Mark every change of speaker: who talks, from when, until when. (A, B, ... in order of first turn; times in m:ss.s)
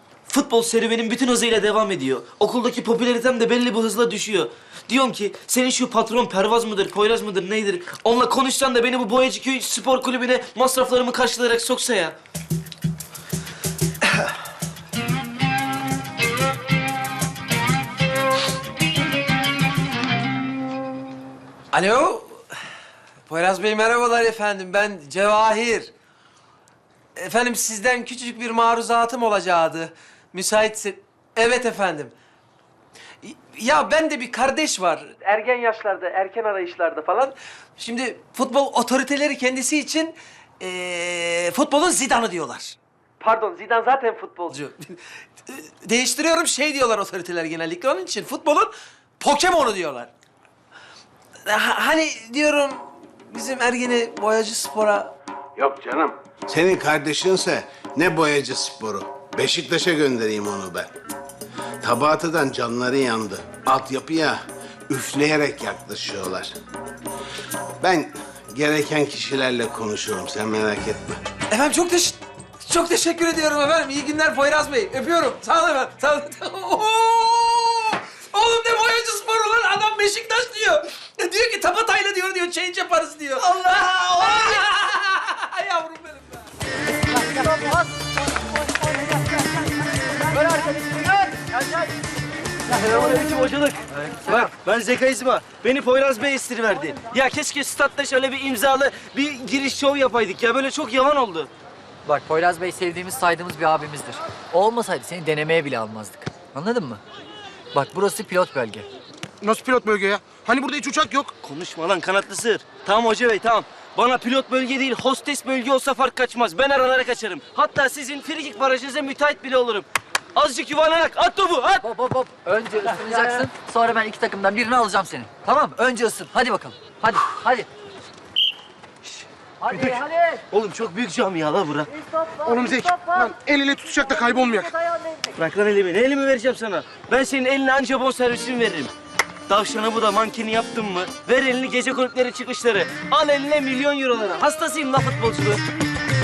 0:00.3-0:12.2 A
0:21.7-0:22.4 B
0:23.3-0:25.9 B
0:27.2-0:32.1 B
0:33.2-0:45.0 B
0:45.5-0:50.1 B
0:51.5-0:55.1 B
0:55.6-1:00.9 C
1:01.8-1:06.6 C
1:07.8-1:11.2 C
1:11.5-1:26.2 B
1:27.2-1:27.8 D
1:30.4-1:31.7 D
1:32.7-1:41.5 A
1:42.1-1:47.0 D
1:47.7-1:48.8 D
1:49.4-1:51.3 E
1:51.4-2:01.9 A
2:01.8-2:07.7 D
2:09.6-2:10.4 D
2:09.7-2:10.0 A
2:10.5-2:11.9 A
2:12.4-2:14.7 E
2:15.3-2:18.9 A
2:19.5-2:25.6 A